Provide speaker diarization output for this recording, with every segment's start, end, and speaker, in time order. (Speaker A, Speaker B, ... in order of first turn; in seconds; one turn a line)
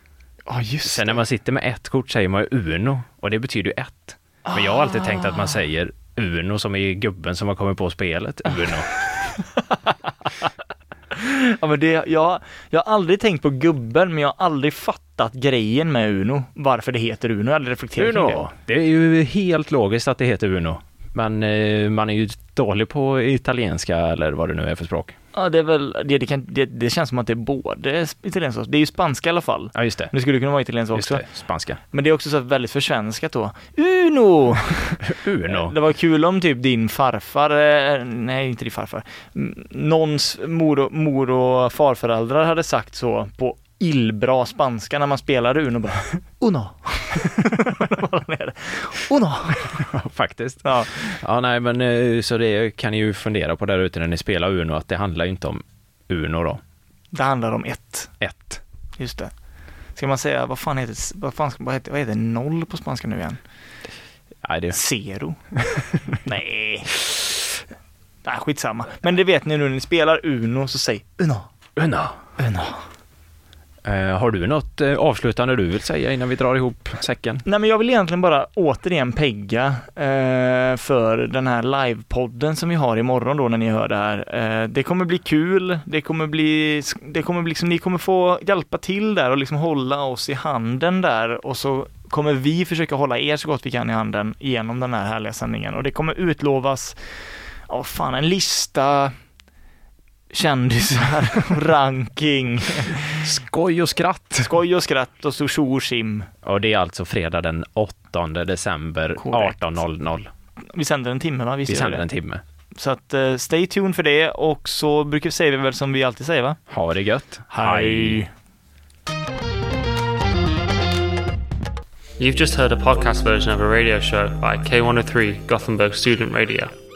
Speaker A: 0.5-1.2
Speaker B: 0.8-9.0
Speaker A: 4.5-5.5
Speaker A: 11.1-18.5
Speaker B: 18.0-25.2
Speaker A: 25.3-31.2
Speaker B: 29.8-30.1
Speaker B: 30.9-31.8
Speaker A: 31.9-49.9
Speaker B: 35.0-35.8
Speaker B: 49.7-56.6
Speaker A: 50.6-50.9
Speaker A: 57.1-58.1
Speaker B: 58.2-58.6
Speaker A: 59.0-59.3
Speaker A: 60.0-63.4
Speaker B: 64.4-64.8
Speaker A: 64.7-65.4
Speaker B: 65.6-65.9
Speaker A: 66.2-67.0
Speaker A: 68.2-71.5
Speaker B: 71.8-72.2
Speaker A: 72.4-72.9
Speaker B: 73.8-77.4
Speaker A: 77.5-97.0
Speaker A: 97.7-99.2
Speaker A: 100.3-103.2
Speaker B: 103.2-104.5
Speaker A: 104.4-106.3
Speaker B: 106.4-110.3
Speaker A: 109.2-109.6
Speaker A: 110.7-112.1
Speaker B: 111.7-112.4
Speaker A: 112.8-116.6
Speaker B: 116.7-118.2
Speaker A: 117.5-118.3
Speaker C: 122.2-126.7